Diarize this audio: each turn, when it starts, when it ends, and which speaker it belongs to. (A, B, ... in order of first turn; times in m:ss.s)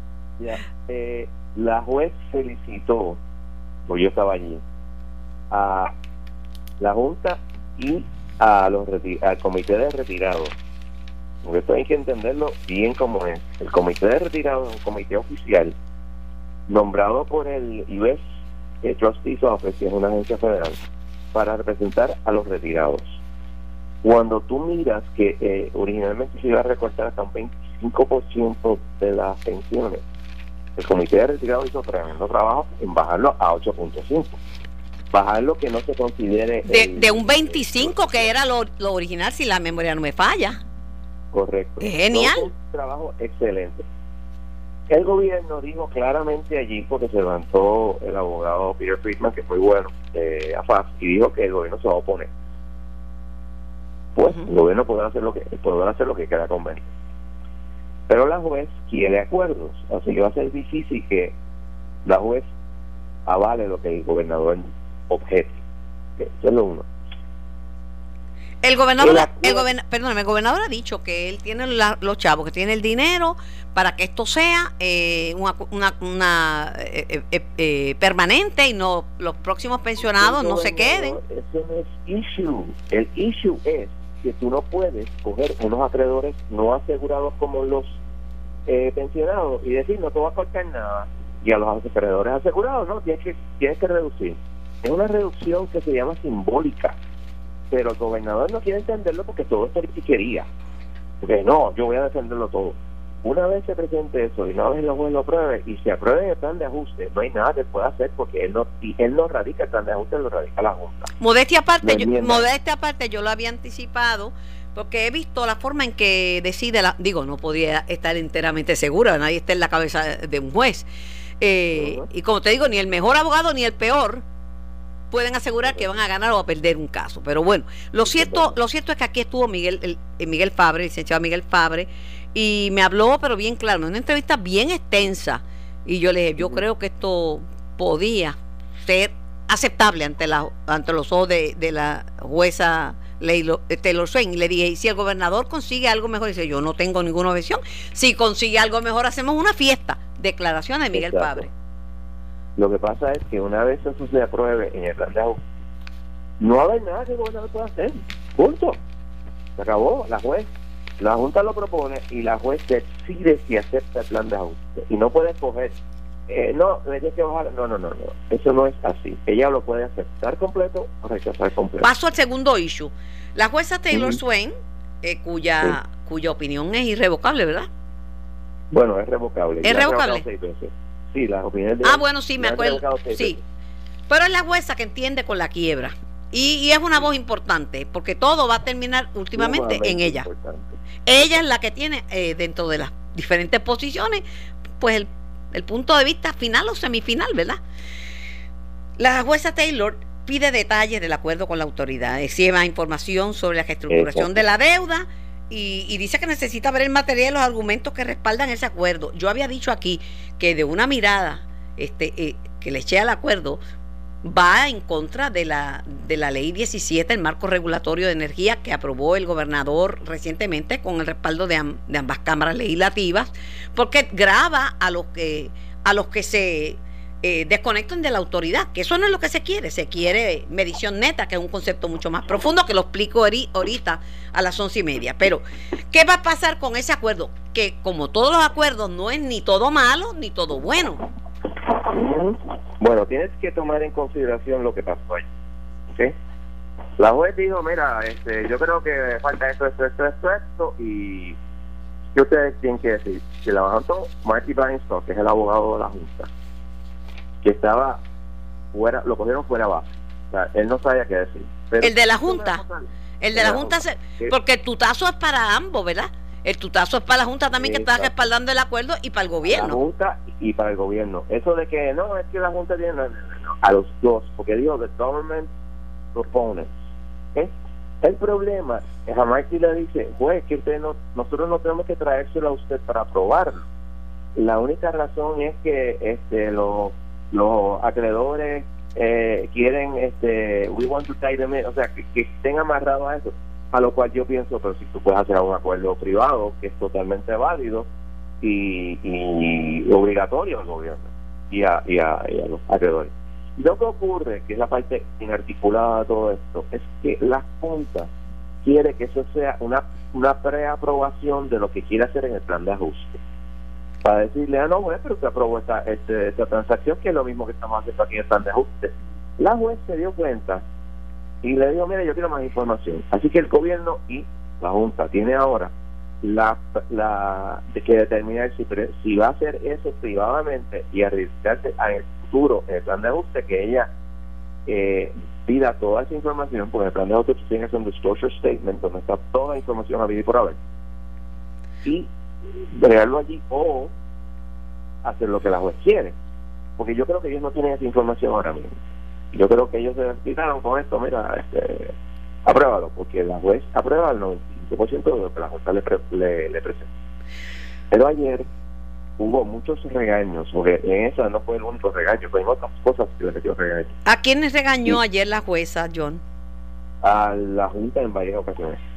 0:00.4-0:03.2 A
0:03.9-0:04.6 A
0:05.5-0:05.9 A
0:06.8-0:10.5 A
0:11.4-0:15.8 A
0:16.7-0:18.2 A
0:18.8-0:20.8 A
0:21.3-0:23.2 A
0:24.0-0:30.0 A
0:30.8-0:34.4 A
0:35.1-0:38.0 A
0:36.7-0:40.6 B
0:41.3-0:43.9 A
0:41.8-0:42.5 B
0:44.9-0:52.3 A
0:54.2-0:56.9 A
0:58.1-1:01.4 A
1:02.0-1:02.5 A
1:03.3-1:05.6 A
1:06.2-1:06.9 A
1:08.6-1:21.2 B
1:09.0-1:09.7 A
1:20.2-1:28.0 A
1:28.7-1:37.0 A
1:37.7-1:40.5 A
1:41.2-1:51.1 A
1:51.2-2:00.9 B
1:51.8-1:52.5 A
2:01.4-2:04.2 B
2:01.7-2:02.0 A
2:05.1-2:31.5 B
2:08.2-2:08.5 A
2:30.9-2:31.5 A
2:32.6-2:35.4 A
2:36.4-2:38.8 A
2:39.6-2:51.9 A
2:51.8-2:57.7 B
2:53.9-2:54.2 A
2:58.7-3:03.4 A
2:59.6-3:00.2 B
3:01.8-3:03.4 B
3:04.1-3:10.3 B
3:09.4-3:10.7 A
3:11.1-3:14.2 B
3:14.8-3:17.6 B
3:19.0-3:33.6 B
3:23.9-3:24.4 A
3:34.2-4:01.0 B
4:01.8-4:05.3 A
4:07.0-4:11.4 A
4:12.1-4:16.3 A
4:17.4-4:18.0 A
4:18.7-4:24.3 A
4:21.8-4:22.6 B
4:23.2-4:29.8 B
4:27.6-4:28.3 A
4:29.5-4:35.5 A
4:36.1-4:36.7 A
4:37.3-4:43.6 A
4:44.4-4:57.9 A
4:58.4-5:08.1 A
5:08.6-5:13.2 A
5:14.0-5:20.6 A
5:21.4-5:33.9 A
5:34.7-5:40.6 A
5:41.8-5:42.1 A
5:42.7-5:43.9 A
5:45.0-5:46.2 A
5:46.8-5:48.8 A
5:49.3-5:56.9 A
5:57.9-5:58.5 A
5:59.2-6:03.9 A
6:04.0-6:06.2 B
6:07.0-6:08.8 A